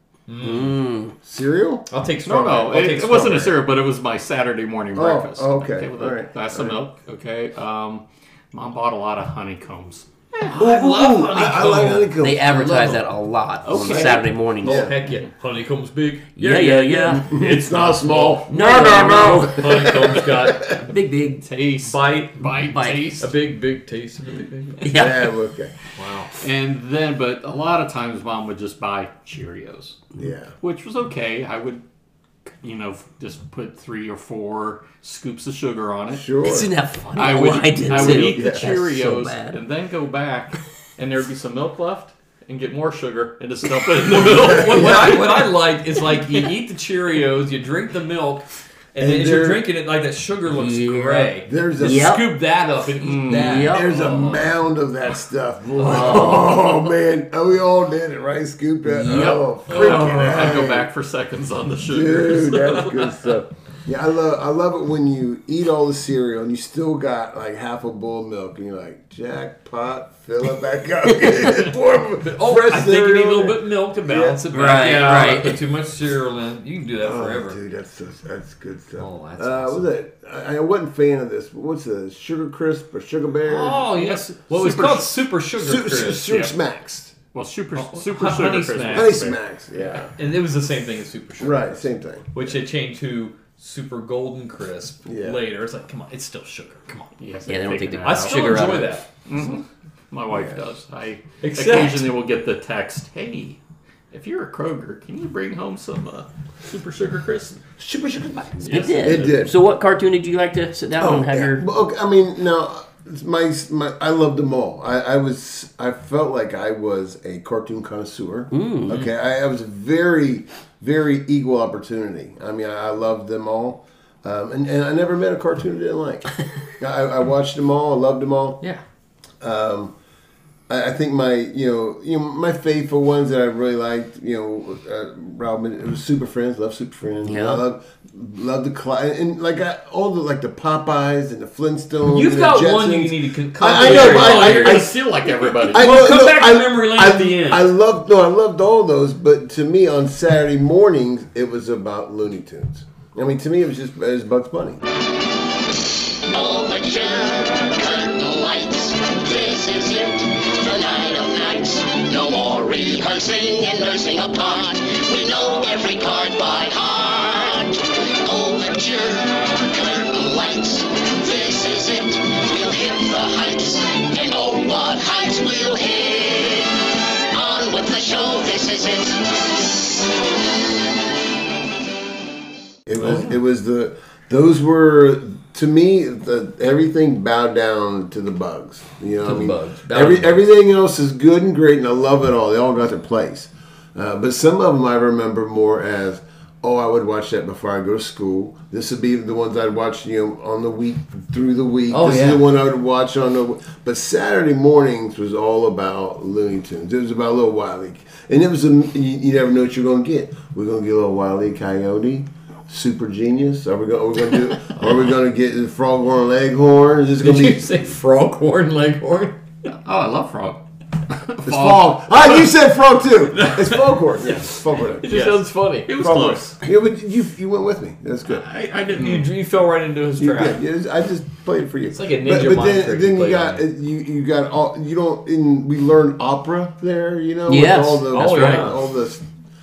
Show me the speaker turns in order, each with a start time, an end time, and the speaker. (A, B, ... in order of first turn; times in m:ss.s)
0:00.3-0:00.8 A
0:00.4-0:01.1 B
0:01.2-0:01.8 C
0:01.9-0:03.6 A
0:02.2-0:10.6 D
0:04.9-0:06.8 C
0:10.5-0:13.1 A
0:10.5-0:12.5 C
0:12.2-0:14.8 B
0:13.6-0:14.3 D
0:14.6-0:17.5 A
0:14.6-0:14.9 C
0:16.4-0:17.2 B
0:17.1-0:20.7 C
0:17.3-0:18.4 D
0:18.5-0:19.8 B
0:19.2-0:20.8 A
0:20.8-0:21.4 B
0:21.4-0:23.3 D
0:21.8-0:22.5 A
0:22.6-0:23.0 B
0:23.2-0:24.9 A
0:24.8-0:25.2 B
0:24.9-0:25.7 C
0:26.0-0:26.3 A
0:26.4-0:31.8 D
0:30.2-0:30.5 C
0:32.6-0:36.3 D
0:36.1-0:36.7 C
0:36.4-0:39.6 B
0:37.1-0:45.2 D
0:37.9-0:38.7 C
0:44.0-0:54.5 A
0:44.3-0:45.4 C
0:49.0-0:49.6 C
0:50.6-0:52.3 B
0:51.4-0:52.2 C
0:53.0-0:53.8 D
0:53.3-0:53.9 B
0:53.7-1:00.9 C
0:55.8-0:56.4 A
0:55.9-0:56.5 B
0:58.8-0:59.5 B
0:59.7-1:00.5 A
0:59.7-1:03.3 D
1:01.9-1:14.4 C
1:12.2-1:17.6 A
1:14.5-1:15.6 B
1:17.0-1:23.9 C
1:19.0-1:19.9 A
1:23.4-1:26.4 A
1:23.9-1:25.1 D
1:25.6-1:27.1 C
1:26.3-1:26.5 D
1:27.3-1:29.4 D
1:27.8-1:29.2 A
1:28.9-1:30.1 C
1:30.2-1:37.1 A
1:31.4-1:32.6 C
1:35.0-1:35.4 C
1:37.2-1:43.6 D
1:37.5-1:38.9 B
1:38.0-1:39.1 A
1:40.3-1:40.6 C
1:41.4-1:42.2 A
1:44.1-1:47.6 D
1:47.8-1:49.5 C
1:48.6-1:49.4 D
1:48.7-1:51.6 B
1:51.0-2:08.6 C
1:58.5-1:59.1 B
2:09.4-2:09.9 C
2:10.7-2:25.0 C
2:17.2-2:17.6 B
2:22.1-2:25.0 A
2:23.7-2:26.0 D
2:25.5-2:34.8 C
2:25.6-2:27.7 A
2:36.3-2:56.7 E
2:57.3-2:59.2 E
3:02.9-3:37.9 C
3:03.0-3:03.4 A
3:09.2-3:10.5 A
3:21.9-3:22.4 A
3:37.2-3:39.4 A
3:39.7-3:42.4 D
3:41.4-3:45.3 C
3:44.3-3:46.4 A
3:45.0-3:46.6 D
3:46.0-3:48.5 C
3:48.3-3:49.3 D
3:48.9-3:50.6 A
3:50.2-3:59.2 C
3:51.9-3:53.6 A
3:57.5-3:58.7 B
3:58.1-3:58.8 A